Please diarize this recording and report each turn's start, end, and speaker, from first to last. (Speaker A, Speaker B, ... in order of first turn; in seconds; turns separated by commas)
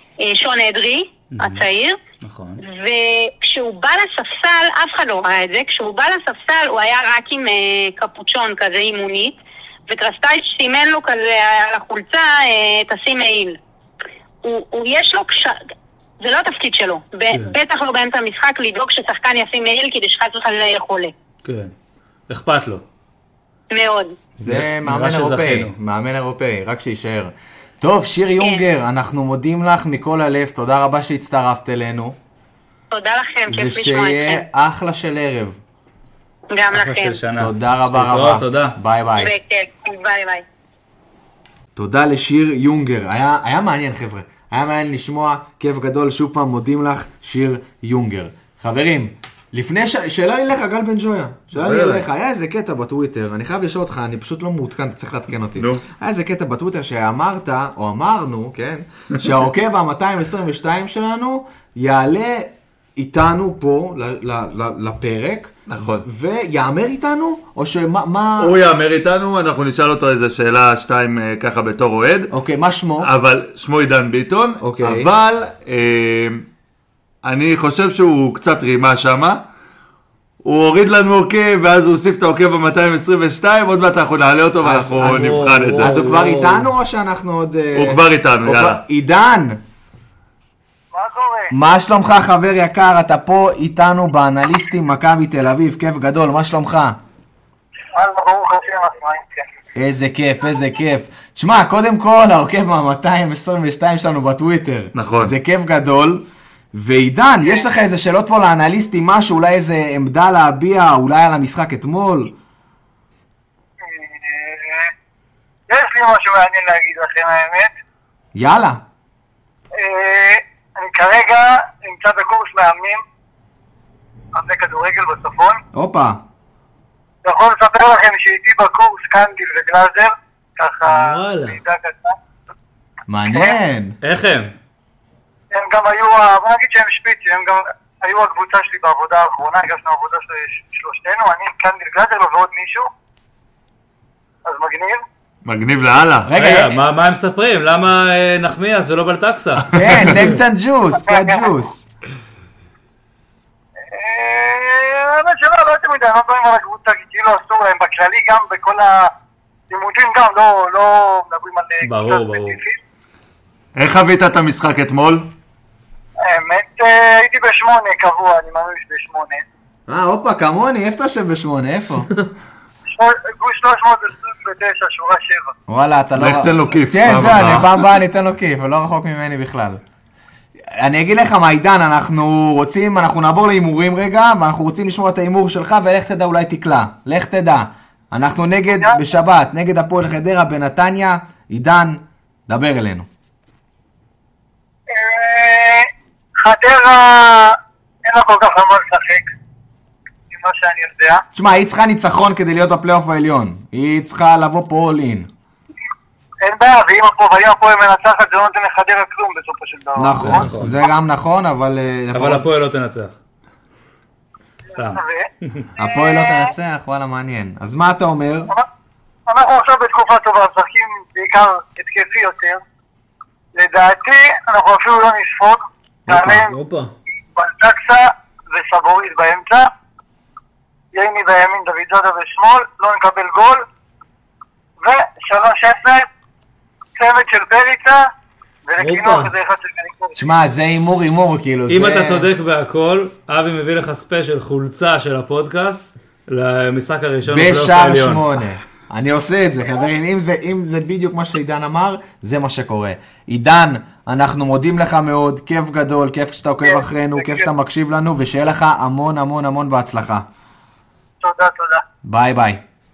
Speaker A: 0.2-2.0, Speaker B: 1.3-1.6, Speaker B: 2.2-2.6, Speaker A: 2.6-13.6, Speaker A: 14.4-15.6, Speaker A: 16.2-21.1, Speaker B: 21.4-21.7, Speaker B: 22.3-22.8, Speaker A: 23.7-24.1, Speaker B: 24.4-25.7, Speaker C: 24.4-32.1, Speaker A: 32.9-34.4, Speaker C: 33.5-35.6, Speaker A: 36.5-37.2, Speaker B: 36.7-38.8, Speaker C: 37.4-39.3, Speaker A: 39.2-40.4, Speaker C: 41.8-68.5, Speaker D: 51.5-52.0, Speaker D: 55.6-55.8, Speaker D: 65.7-66.0, Speaker D: 68.4-72.3, Speaker C: 72.3-73.1, Speaker D: 73.0-76.4, Speaker C: 74.6-75.1, Speaker D: 77.2-79.4, Speaker D: 80.4-86.0, Speaker C: 84.6-89.6, Speaker E: 85.0-86.7, Speaker D: 87.7-88.8, Speaker F: 90.9-91.5, Speaker C: 91.5-97.0, Speaker F: 97.9-99.4, Speaker C: 99.8-106.2, Speaker D: 104.9-105.3, Speaker C: 106.7-112.3, Speaker F: 113.8-114.9, Speaker F: 115.7-117.7, Speaker C: 118.3-118.8, Speaker F: 119.7-123.0, Speaker F: 124.3-125.6, Speaker C: 125.7-126.2, Speaker F: 127.2-132.2, Speaker E: 130.8-131.6, Speaker C: 133.1-134.0, Speaker F: 133.3-133.6, Speaker B: 134.0-134.5, Speaker F: 135.5-142.9, Speaker F: 144.4-145.0, Speaker D: 145.4-146.3, Speaker C: 146.2-146.8, Speaker B: 146.3-150.3, Speaker C: 149.7-151.8, Speaker F: 151.0-151.5, Speaker F: 153.9-159.1, Speaker F: 159.7-162.8, Speaker B: 161.8-162.6, Speaker D: 163.7-165.3, Speaker F: 166.3-169.4, Speaker C: 169.9-172.1, Speaker F: 172.9-175.5, Speaker C: 175.7-179.8, Speaker D: 176.2-177.7, Speaker C: 180.8-193.1, Speaker F: 194.9-199.3, Speaker F: 200.3-201.2, Speaker C: 201.3-205.3, Speaker F: 206.4-210.4, Speaker C: 210.0-212.4, Speaker B: 210.2-210.8, Speaker B: 212.1-213.2, Speaker F: 214.7-216.5, Speaker B: 214.7-215.7, Speaker C: 215.8-218.5, Speaker F: 219.3-222.6, Speaker F: 223.5-226.6, Speaker C: 226.1-226.4, Speaker E: 226.4-226.9, Speaker F: 227.3-229.7, Speaker F: 230.9-233.6, Speaker F: 234.8-236.1, Speaker F: 237.0-238.1, Speaker F: 238.7-240.2, Speaker E: 238.8-239.3, Speaker C: 240.1-242.3, Speaker B: 241.7-248.2, Speaker C: 247.3-260.2, Speaker F: 256.6-257.5, Speaker F: 261.2-261.8, Speaker C: 262.0-262.6